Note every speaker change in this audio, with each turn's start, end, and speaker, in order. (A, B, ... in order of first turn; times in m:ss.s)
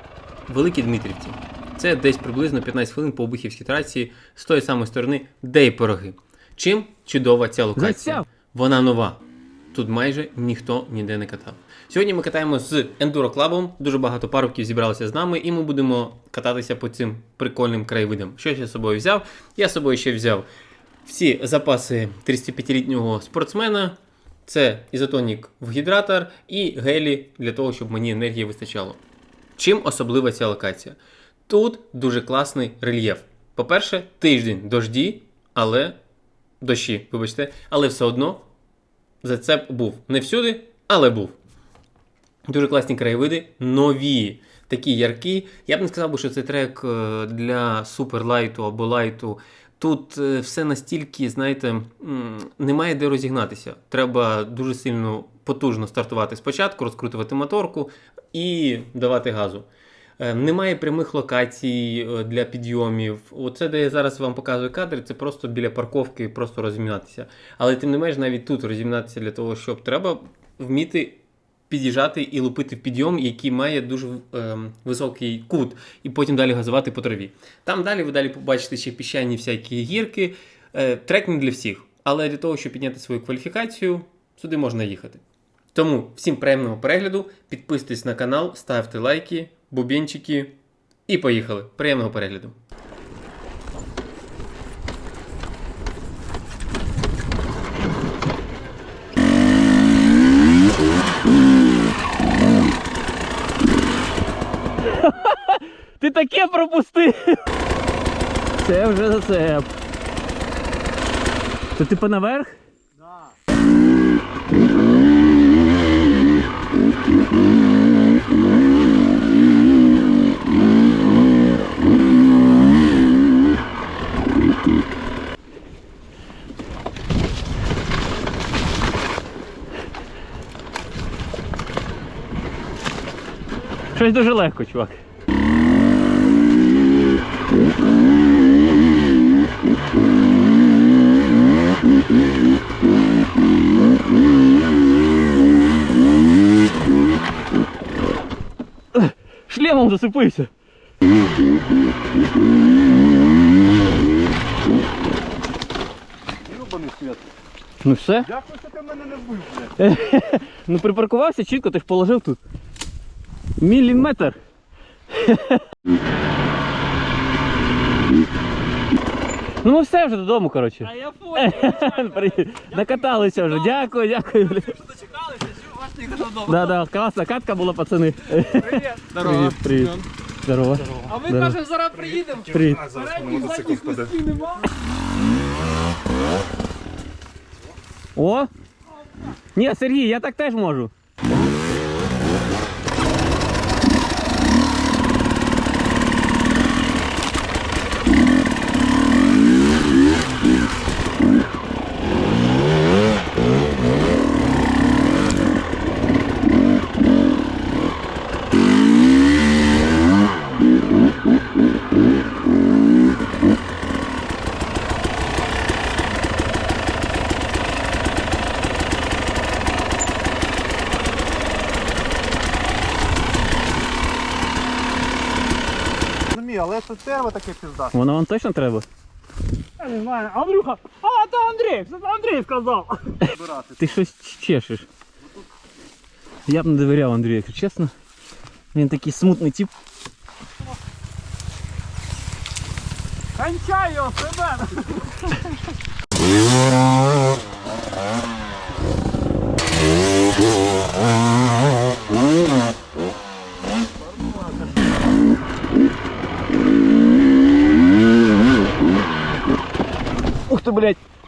0:00.5-0:09.2 A
0:07.8-0:08.3 B
0:09.7-0:20.5 A
0:21.0-0:29.0 A
0:29.6-0:36.0 A
0:36.6-0:38.5 A
0:39.2-0:41.4 A
0:42.5-0:59.7 A
1:00.2-1:25.2 A
1:25.7-1:32.6 A
1:45.0-1:47.4 B
1:48.6-1:49.7 B
1:51.8-1:52.6 B
2:13.9-2:15.0 B
2:28.9-2:30.5 B
2:36.4-2:37.2 C
2:37.8-2:38.3 B
2:38.2-2:39.8 C
2:39.8-2:42.4 B
2:43.6-2:44.4 B
2:45.2-2:45.6 B
2:49.6-2:55.0 B
2:51.0-2:53.6 D
2:55.1-2:56.2 D
2:56.2-3:01.6 B
2:58.7-2:59.1 D
3:01.0-3:04.6 D
3:02.4-3:03.0 B
3:03.1-3:03.8 C
3:08.2-3:08.5 B
3:09.6-3:10.9 B
3:46.3-3:48.0 C
3:47.9-3:48.8 B
3:49.8-3:53.2 D
3:53.3-3:54.0 C
3:53.8-3:54.9 B
3:56.5-3:57.9 B
3:58.7-3:59.7 B
4:03.4-4:05.4 D
4:20.5-4:21.0 B